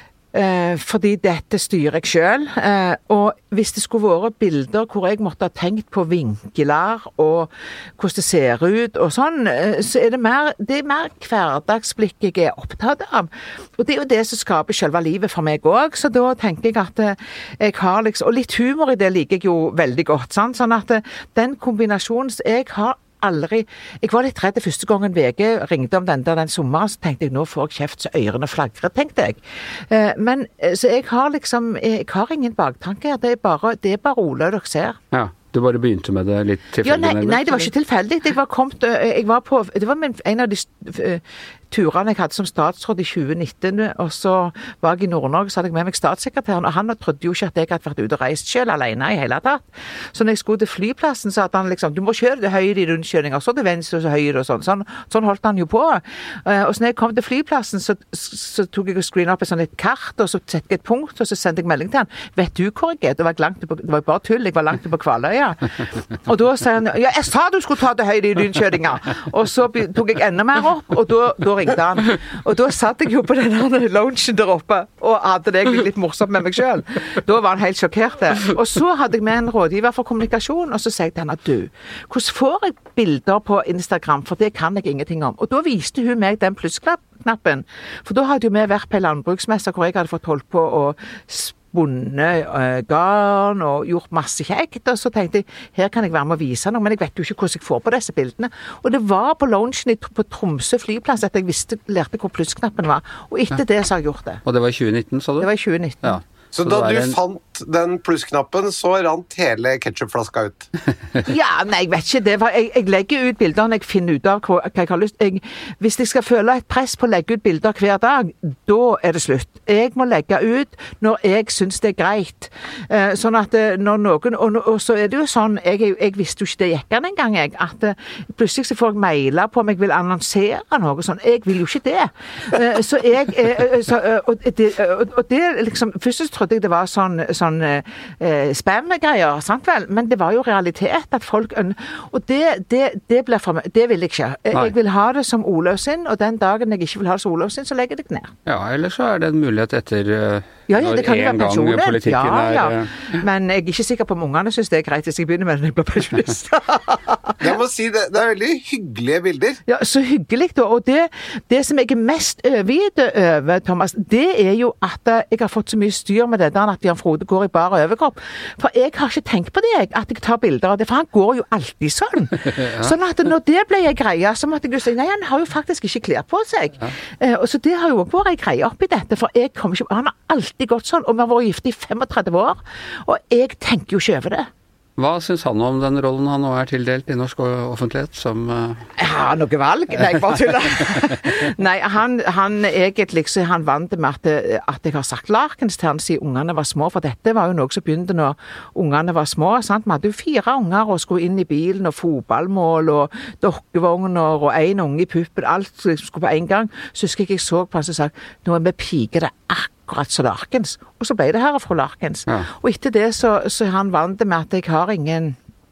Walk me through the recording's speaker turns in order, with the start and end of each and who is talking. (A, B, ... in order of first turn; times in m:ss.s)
0:00.3-0:35.0 A
0:35.1-0:37.7 B
0:36.8-1:44.4 A
1:44.4-1:45.5 B
1:45.4-1:46.2 A
1:46.0-1:47.2 B
1:46.5-1:50.7 C
1:51.2-2:28.3 A
2:28.5-2:32.9 B
2:30.7-2:37.4 A
2:37.4-2:39.6 C
2:39.7-3:04.5 A
2:52.6-2:52.9 B
3:05.0-3:08.9 B
3:09.0-3:35.4 A